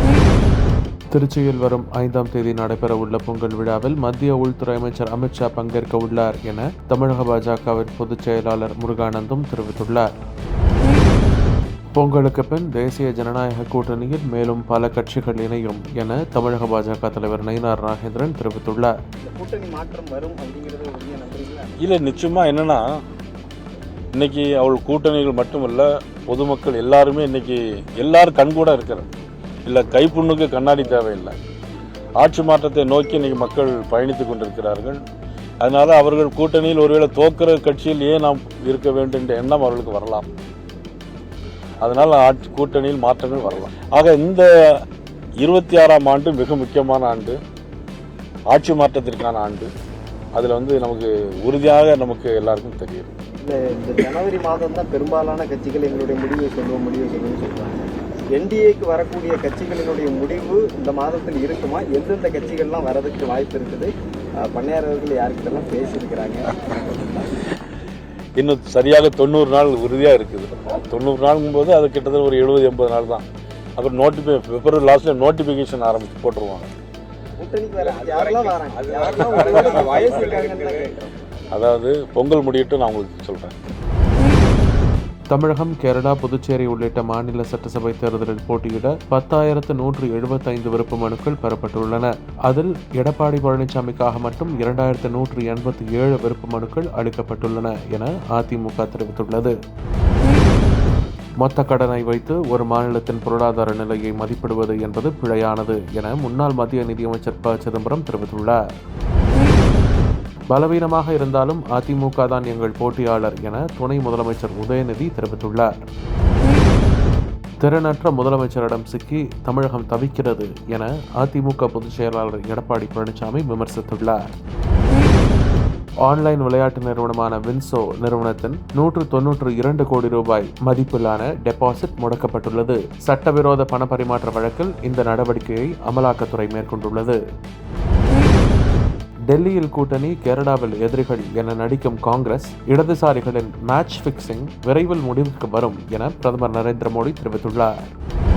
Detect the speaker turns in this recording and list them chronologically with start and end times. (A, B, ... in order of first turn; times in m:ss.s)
0:01.1-0:10.0 A
0:11.9-0:18.9 A
0:19.2-0:21.8 B
0:21.8-0:22.8 C
0:24.1-0:29.1 C
0:29.6-0:31.4 C
0:32.2-0:35.0 C
0:35.6-0:40.3 C
0:41.8-0:44.8 C
0:45.4-0:47.4 C
0:48.5-0:49.7 C
0:50.3-0:53.2 C
0:53.4-1:07.2 B
1:08.4-1:13.2 C
1:13.8-1:16.7 C
1:17.4-1:21.1 B
1:21.5-1:23.5 C
1:25.3-1:39.5 A
1:41.4-1:48.6 A
1:50.5-1:55.8 A
1:57.6-2:04.2 A
2:06.0-2:17.2 A
2:19.3-2:27.8 A